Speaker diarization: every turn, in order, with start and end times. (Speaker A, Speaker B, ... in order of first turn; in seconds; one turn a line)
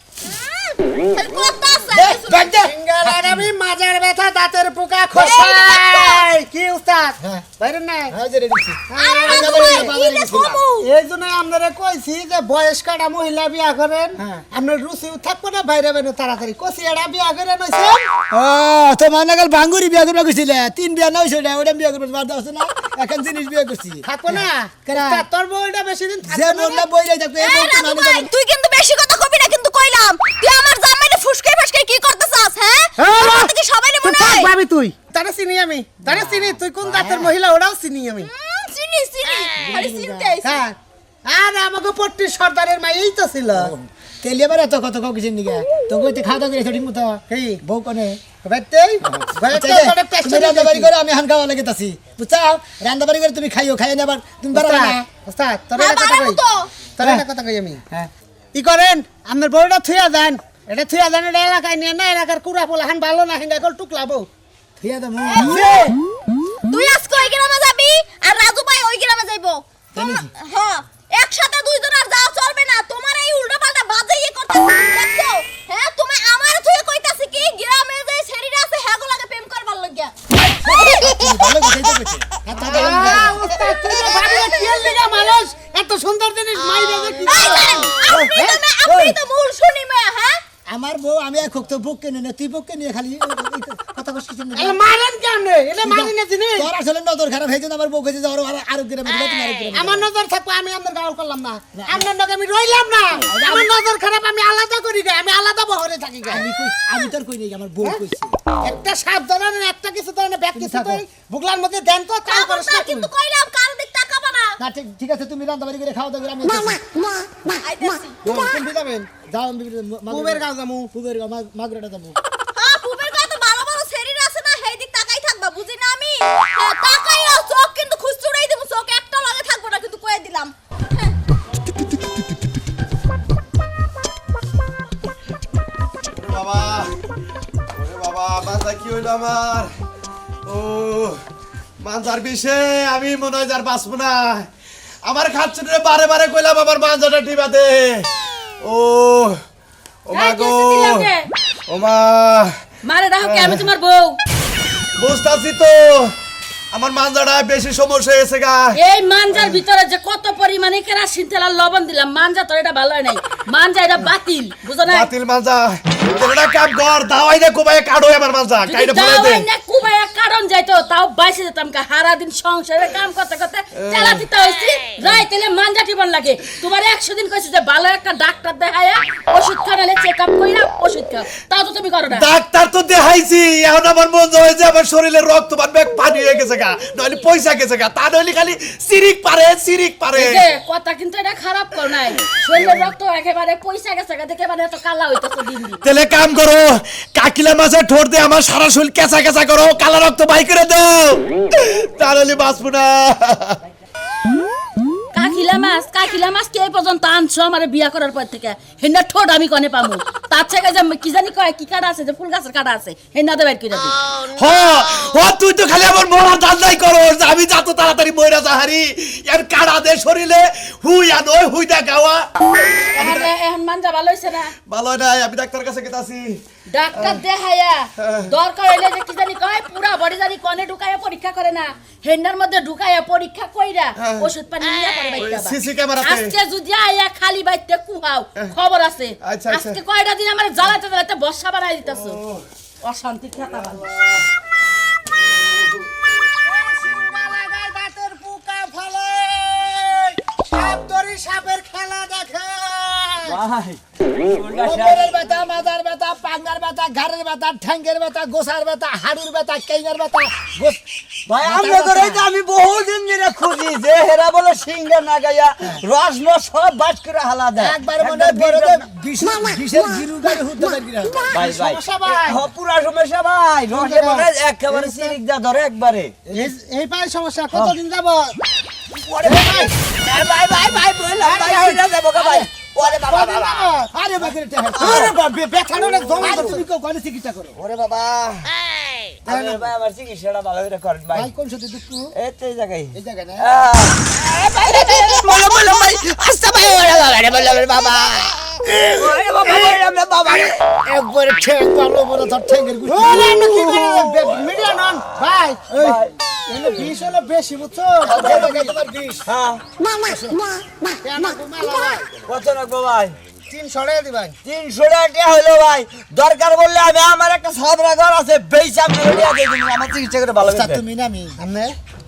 Speaker A: 0.2-2.6
Speaker B: 1.9-3.4
Speaker C: 2.4-8.2
Speaker A: 5.1-6.3
Speaker B: 8.1-10.6
Speaker C: 8.9-9.9
Speaker A: 9.0-10.9
Speaker C: 10.8-18.1
Speaker B: 14.2-14.4
Speaker B: 18.3-25.2
Speaker C: 24.0-26.8
Speaker B: 26.2-28.3
Speaker A: 27.4-34.5
Speaker C: 33.0-38.3
Speaker B: 36.1-36.3
Speaker B: 36.8-37.3
Speaker A: 38.2-40.6
Speaker B: 39.6-40.3
Speaker C: 40.4-43.7
Speaker B: 43.5-48.2
Speaker C: 47.3-47.6
Speaker C: 48.4-50.9
Speaker B: 49.0-55.1
Speaker C: 54.5-56.4
Speaker A: 55.8-56.8
Speaker C: 57.0-57.8
Speaker B: 57.0-57.2
Speaker C: 58.5-64.3
Speaker B: 64.8-65.9
Speaker A: 65.2-65.9
Speaker C: 65.4-65.9
Speaker A: 66.7-81.7
Speaker B: 69.9-70.3
Speaker B: 80.4-83.4
Speaker C: 82.5-88.6
Speaker A: 83.7-85.1
Speaker A: 86.7-90.4
Speaker B: 88.8-89.2
Speaker B: 90.7-94.8
Speaker C: 94.5-96.7
Speaker B: 95.8-100.1
Speaker C: 99.7-106.5
Speaker B: 101.7-102.1
Speaker B: 103.3-103.7
Speaker B: 106.2-108.4
Speaker C: 108.6-113.1
Speaker B: 110.5-111.0
Speaker A: 112.3-114.6
Speaker B: 114.6-116.8
Speaker A: 117.6-118.5
Speaker C: 118.2-119.1
Speaker B: 119.2-122.2
Speaker C: 120.1-120.9
Speaker A: 122.5-131.2
Speaker D: 136.2-136.9
Speaker D: 137.7-139.7
Speaker D: 140.4-141.2
Speaker D: 141.8-144.5
Speaker D: 145.0-148.1
Speaker D: 148.6-149.4
Speaker D: 150.1-151.1
Speaker E: 150.1-151.3
Speaker D: 151.7-152.5
Speaker E: 152.8-154.2
Speaker D: 153.2-153.7
Speaker D: 154.9-156.1
Speaker D: 156.7-158.8
Speaker E: 158.7-165.1
Speaker D: 159.3-159.6
Speaker D: 164.8-169.5
Speaker E: 168.6-182.3
Speaker D: 173.7-174.2
Speaker D: 182.1-190.5
Speaker E: 190.1-195.8
Speaker D: 192.6-192.9
Speaker D: 195.8-203.6
Speaker E: 205.1-214.0
Speaker D: 214.3-223.3
Speaker E: 222.9-224.5
Speaker D: 224.6-226.4
Speaker E: 226.7-242.2
Speaker D: 226.9-227.2
Speaker D: 228.0-228.3
Speaker D: 234.0-234.3
Speaker D: 235.2-236.3
Speaker D: 239.2-239.8
Speaker D: 241.9-242.4
Speaker E: 242.9-243.8
Speaker D: 243.5-244.1
Speaker C: 246.4-253.4
Speaker F: 253.2-255.1
Speaker B: 254.6-260.8
Speaker F: 261.3-268.8
Speaker B: 261.4-262.2
Speaker B: 267.6-271.3
Speaker C: 271.3-272.4
Speaker F: 271.3-276.3
Speaker C: 273.7-274.2
Speaker C: 276.3-278.4
Speaker B: 279.0-280.6
Speaker C: 279.2-279.7
Speaker F: 280.0-283.6
Speaker B: 281.3-285.1
Speaker C: 282.8-283.9
Speaker C: 284.8-286.6
Speaker B: 286.2-287.6
Speaker F: 287.6-288.5
Speaker F: 289.2-291.3
Speaker C: 289.2-289.6
Speaker B: 291.1-292.1
Speaker F: 292.1-294.1
Speaker B: 292.9-293.4
Speaker F: 294.6-297.3
Speaker B: 296.0-298.3
Speaker F: 298.7-300.6
Speaker B: 300.8-303.6
Speaker C: 302.9-308.7
Speaker F: 303.2-304.1
Speaker F: 305.7-306.1
Speaker B: 308.0-309.3
Speaker F: 308.1-308.5
Speaker F: 309.2-309.6
Speaker B: 309.9-310.4
Speaker C: 311.0-312.1
Speaker F: 312.3-313.1
Speaker C: 313.5-314.4
Speaker F: 314.4-320.8
Speaker B: 320.4-321.4
Speaker C: 321.4-321.8